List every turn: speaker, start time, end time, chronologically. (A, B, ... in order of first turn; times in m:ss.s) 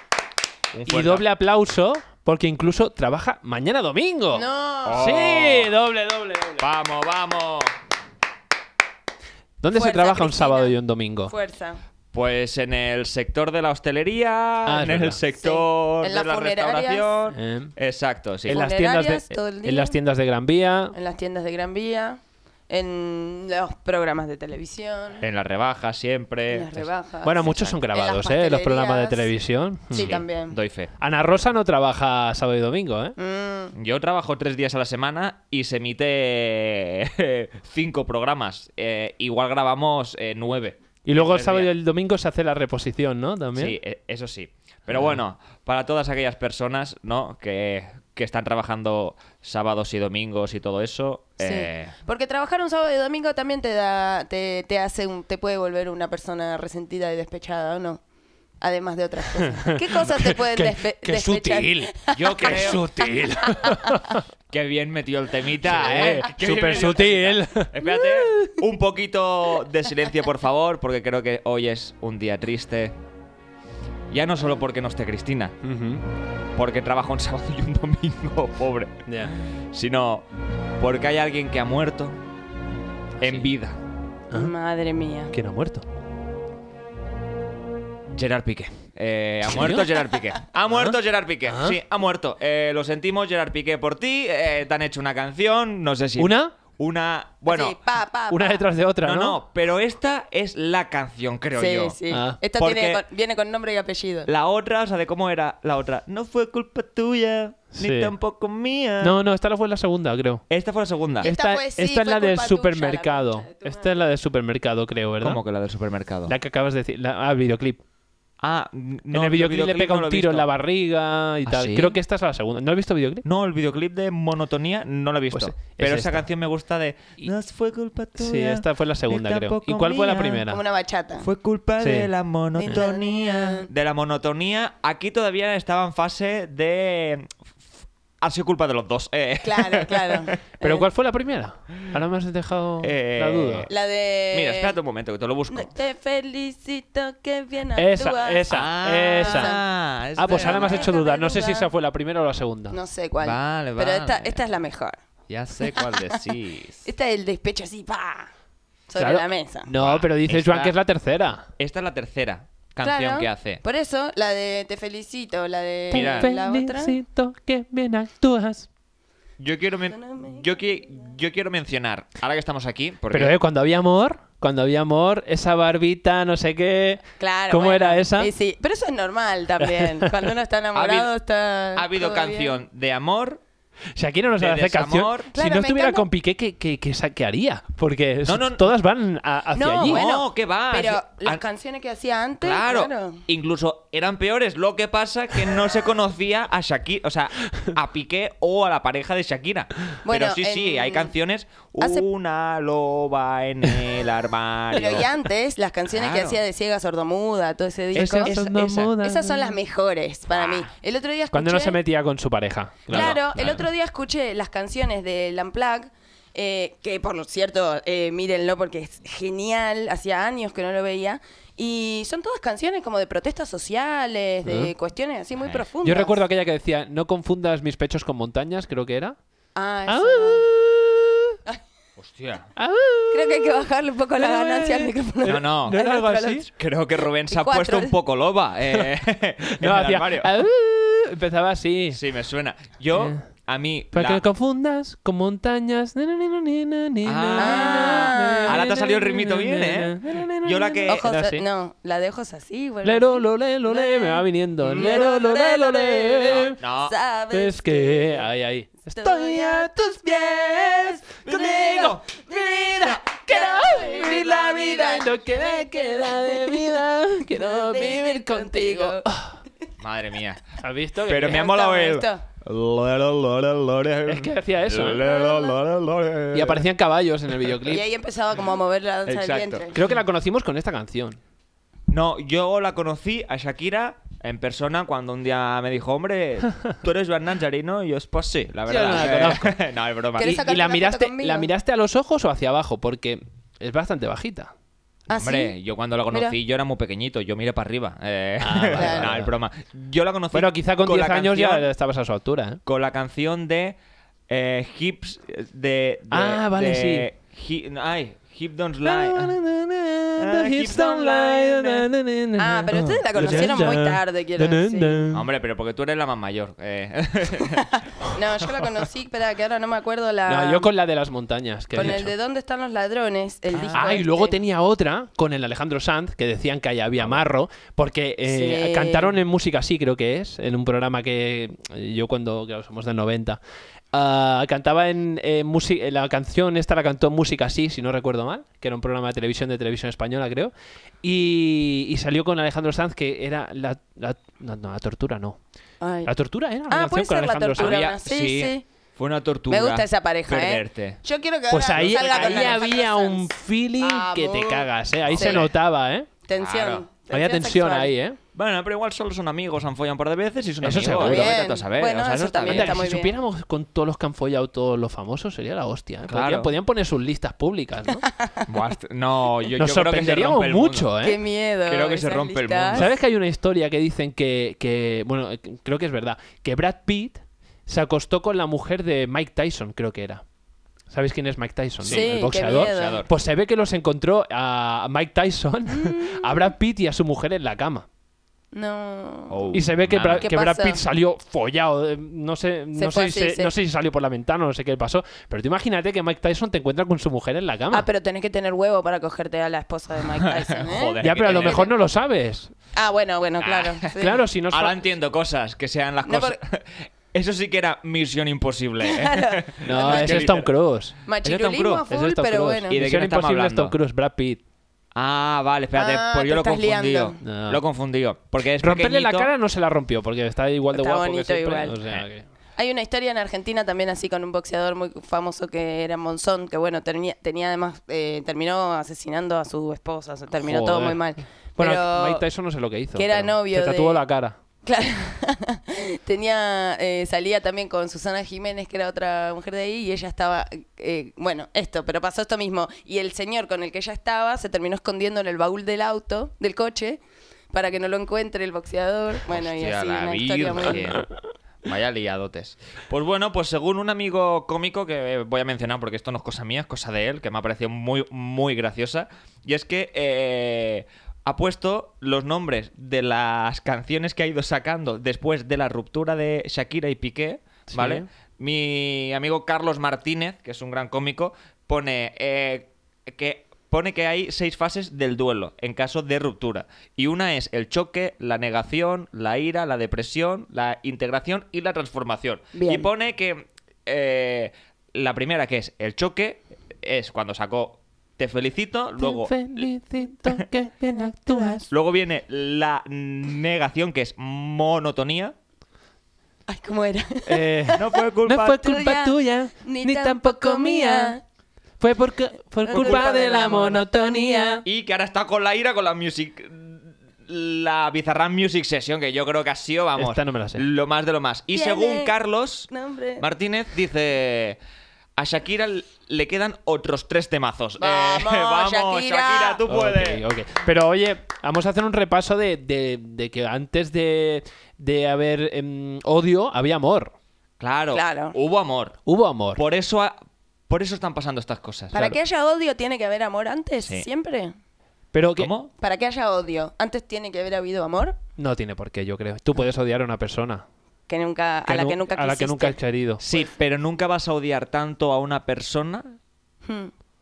0:00.7-0:01.2 A
0:00.9-0:06.6 B
0:04.3-0:05.0 C
0:04.8-0:05.7 A
0:06.6-0:07.7 A
0:09.6-0:11.3 B
0:09.7-0:11.8 C
0:12.1-0:18.6 A
0:14.7-0:15.2 B
0:15.4-0:17.2 C
0:17.3-0:17.7 B
0:18.5-0:20.9 B
0:18.5-0:20.0 C
0:20.9-0:25.2 C
0:25.2-0:26.9 A
0:26.5-0:29.3 C
0:27.2-0:30.2 B
0:29.9-0:30.6 C
0:30.0-0:30.9 A
0:31.0-0:33.2 B
0:33.2-0:33.7 C
0:33.8-0:41.7 A
0:41.1-0:43.8 B
0:43.6-0:51.9 A
0:51.4-0:58.0 C
0:58.6-1:03.8 C
0:59.7-1:04.2 B
1:02.2-1:03.1 A
1:04.5-1:12.9 A
1:05.6-1:07.7 B
1:14.1-1:15.6 A
1:15.6-1:16.0 B
1:16.6-1:20.3 A
1:19.1-1:19.3 B
1:20.8-1:22.2 A
1:23.2-1:23.8 A
1:23.2-1:23.5 B
1:24.3-1:25.3 C
1:25.3-1:25.8 B
1:28.1-1:37.8 A
1:29.5-1:29.9 B
1:31.5-1:31.8 B
1:36.2-1:36.5 B
1:37.5-1:38.6 C
1:38.3-1:39.4 B
1:39.0-1:42.0 A
1:41.6-1:44.3 C
1:42.1-1:42.4 B
1:42.6-1:43.0 A
1:44.3-1:49.2 A
1:47.8-1:48.1 B
1:49.0-1:50.4 B
1:50.5-1:51.3 A
1:51.2-1:53.9 C
1:51.2-1:55.4 B
1:55.2-1:56.3 A
1:56.3-1:57.8 B
1:58.4-2:00.5 A
1:59.1-2:03.2 B
2:01.5-2:02.0 A
2:03.2-2:10.5 A
2:05.3-2:06.2 B
2:08.2-2:10.6 B
2:10.5-2:11.3 C
2:11.2-2:17.3 A
2:11.8-2:12.1 B
2:12.6-2:13.7 C
2:18.2-2:20.3 A
2:19.4-2:20.8 C
2:20.6-2:23.7 B
2:22.8-2:23.7 A
2:23.7-2:24.8 C
2:24.3-2:25.7 A
2:25.5-2:28.5 C
2:27.8-2:29.5 B
2:28.5-2:30.9 A
2:29.2-2:29.6 C
2:30.2-2:32.8 B
2:30.3-2:31.7 C
2:32.7-2:35.0 C
2:33.2-2:34.4 A
2:35.3-2:36.9 A
2:35.6-2:36.2 C
2:36.9-2:38.3 C
2:38.9-2:39.7 C
2:39.0-2:41.5 B
2:39.8-2:40.8 A
2:41.6-2:43.6 A
2:42.8-2:46.9 C
2:45.9-2:48.7 B
2:45.9-2:46.3 A
2:49.4-2:53.4 A
2:49.9-2:50.5 C
2:53.1-2:58.3 B
2:57.2-3:02.6 C
2:59.6-3:00.1 B
3:00.7-3:01.1 A
3:01.8-3:03.4 A
3:04.0-3:10.0 B
3:04.4-3:05.3 A
3:05.3-3:06.1 C
3:08.3-3:08.7 A
3:09.6-3:13.2 C
3:09.8-3:11.4 A
3:12.4-3:25.1 A
3:20.0-3:21.1 C
3:21.8-3:22.1 C
3:24.7-3:28.4 C
3:25.9-3:26.4 A
3:28.0-3:29.0 A
3:28.0-3:29.6 B
3:29.0-3:31.8 C
3:30.3-3:30.7 A
3:31.3-3:33.6 B
3:32.9-3:46.2 C
3:32.9-3:33.6 A
3:44.4-3:44.7 B
3:45.8-3:49.2 B
3:49.6-3:50.4 C
3:49.9-3:51.4 B
3:52.0-3:52.5 A
3:52.6-3:53.6 B
3:53.1-3:56.5 C
3:54.2-3:56.4 B
3:55.2-4:00.4 A
3:57.3-3:57.9 C
3:59.6-4:02.0 B
4:01.9-4:04.2 A
4:03.0-4:03.2 B
4:03.9-4:11.4 B
4:07.0-4:11.3 A
4:07.4-4:08.6 C
4:10.9-4:18.2 C
4:12.8-4:16.6 B
4:14.7-4:15.0 A
4:16.3-4:17.0 A
4:17.3-4:29.4 B
4:18.9-4:21.0 C
4:21.2-4:22.0 A
4:22.2-4:29.1 C
4:29.8-4:30.4 A
4:30.6-4:31.4 B
4:31.0-4:36.7 A
4:31.2-4:32.2 C
4:34.1-4:35.0 B
4:35.0-4:35.6 C
4:36.3-4:37.8 B
4:37.4-4:37.8 A
4:37.7-4:39.8 C
4:39.1-4:39.6 A
4:39.7-4:41.2 B
4:41.9-4:50.4 A
4:48.7-4:49.5 B
4:50.2-4:51.5 C
4:50.2-4:54.5 B
4:55.1-4:55.5 C
4:55.2-5:01.7 A
4:56.1-4:56.4 C
4:58.4-4:59.3 B
4:58.8-4:59.1 C
5:00.3-5:02.6 B
5:02.7-5:03.8 A
5:04.3-5:09.4 A
5:06.1-5:07.1 B
5:08.8-5:15.2 B
5:10.2-5:11.9 A
5:12.4-5:15.0 C
5:13.2-5:13.5 A
5:15.1-5:17.8 A
5:18.1-5:20.7 C
5:20.3-5:22.1 B
5:21.8-5:24.4 C
5:21.8-5:22.0 A
5:23.6-5:24.0 A
5:23.6-5:33.4 B
5:28.3-5:29.1 C
5:33.9-5:40.5 B
5:41.0-5:45.4 B
5:45.8-5:46.1 C
5:46.1-5:47.8 B
5:46.7-5:48.7 C
5:47.6-5:51.0 A
5:49.5-5:54.7 C
5:51.5-5:56.1 B
5:51.8-5:52.6 A
5:55.0-5:55.5 A
5:55.2-5:55.5 C
5:56.3-5:57.9 C
5:56.4-5:56.8 A
5:57.1-5:58.2 B
5:58.4-6:02.8 A
6:00.6-6:01.4 B
6:01.0-6:03.1 C
6:02.5-6:08.0 B
6:06.1-6:06.5 A
6:08.5-6:10.9 A
6:09.6-6:11.2 B
6:11.0-6:12.9 C
6:11.7-6:12.9 A
6:12.8-6:20.2 B
6:20.9-6:27.9 B
6:21.8-6:23.1 A
6:21.9-6:23.0 C
6:25.7-6:26.5 C
6:28.5-6:29.4 C
6:29.3-6:30.3 A
6:29.5-6:37.9 B
6:30.2-6:30.8 C
6:32.8-6:33.5 C
6:37.7-6:41.7 C
6:40.4-6:41.7 A
6:41.0-6:42.5 B
6:42.8-6:44.2 C
6:43.4-6:43.9 A
6:44.0-6:44.8 B
6:44.5-6:50.5 A
6:46.0-6:46.4 C
6:48.8-6:50.3 C
6:49.6-6:51.0 B
6:51.1-6:52.8 C
6:51.2-6:51.8 A
6:51.9-6:54.4 B
6:52.7-6:53.8 A
6:55.0-6:59.3 A
6:55.8-6:57.2 C
6:57.2-6:57.6 B
6:58.6-7:02.3 B
7:00.7-7:01.8 C
7:02.6-7:12.2 C
7:10.4-7:11.0 B
7:11.6-7:14.4 B
7:13.0-7:14.0 C
7:14.6-7:27.0 C
7:27.5-7:31.0 C
7:29.3-7:31.1 A
7:31.6-8:09.6 A
7:47.7-7:48.1 B
8:02.5-8:02.9 C
8:09.0-8:11.7 B
8:11.3-8:11.6 C
8:11.7-8:15.4 A
8:16.5-8:21.2 C
8:17.3-8:21.2 B
8:17.8-8:18.7 A
8:21.8-8:24.6 B
8:22.7-8:24.6 C
8:22.7-8:23.1 A
8:24.6-8:34.6 A
8:30.0-8:30.6 B
8:31.5-8:32.1 C
8:32.7-8:33.2 C
8:35.2-8:40.2 A
8:37.8-8:39.6 C
8:39.7-8:47.1 B
8:47.6-8:49.0 A
8:47.9-8:48.4 C
8:49.1-8:49.6 B
8:49.5-8:50.2 A
8:50.7-8:52.0 A
8:51.9-8:54.5 C
8:55.1-8:55.5 B
8:55.4-8:55.7 A
8:55.8-8:58.2 C
8:58.4-9:00.6 B
9:01.1-9:02.8 C
9:01.7-9:03.2 B
9:03.2-9:06.2 A
9:06.6-9:06.9 C